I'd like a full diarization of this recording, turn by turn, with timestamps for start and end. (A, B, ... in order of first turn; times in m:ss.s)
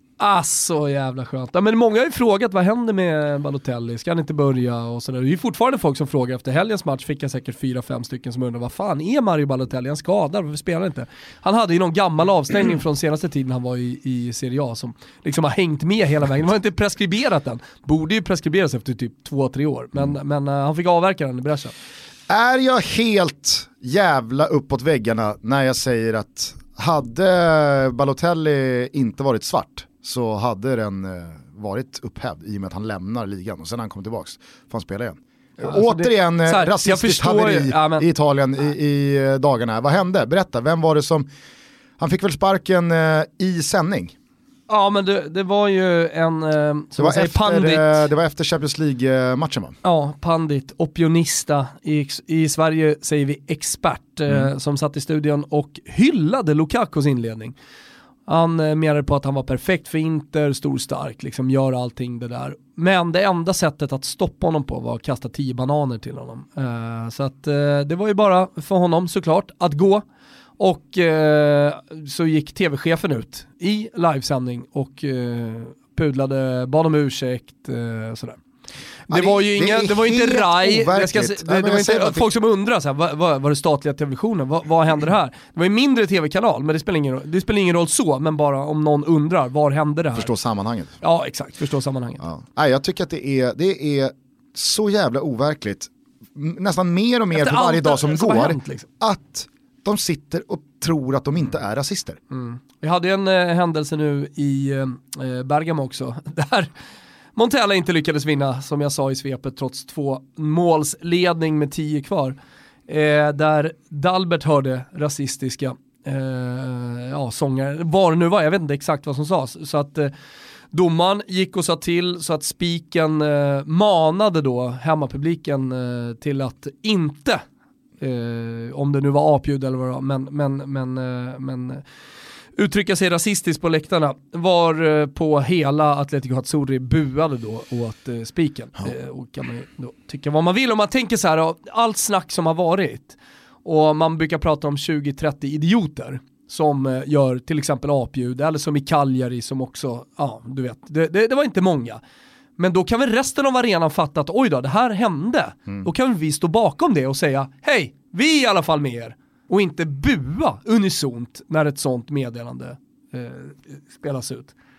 0:00.2-0:21.7 A
0:22.3-0:41.3 B
0:35.6-0:38.1 A
0:42.0-0:44.2 B
0:44.7-0:48.0 A
0:47.0-0:49.8 B
0:49.8-0:57.6 A
0:58.3-1:10.0 A
1:10.6-1:18.4 A
1:19.1-1:30.3 A
1:19.1-1:22.3 B
1:30.2-1:30.9 B
1:31.0-1:32.2 A
1:32.2-1:42.2 B
1:37.3-1:38.9 A
1:42.3-1:46.7 A
1:47.4-1:52.4 A
1:52.9-2:00.1 A
2:00.7-2:07.4 A
2:08.0-2:11.8 A
2:12.6-2:32.0 A
2:32.6-2:44.5 A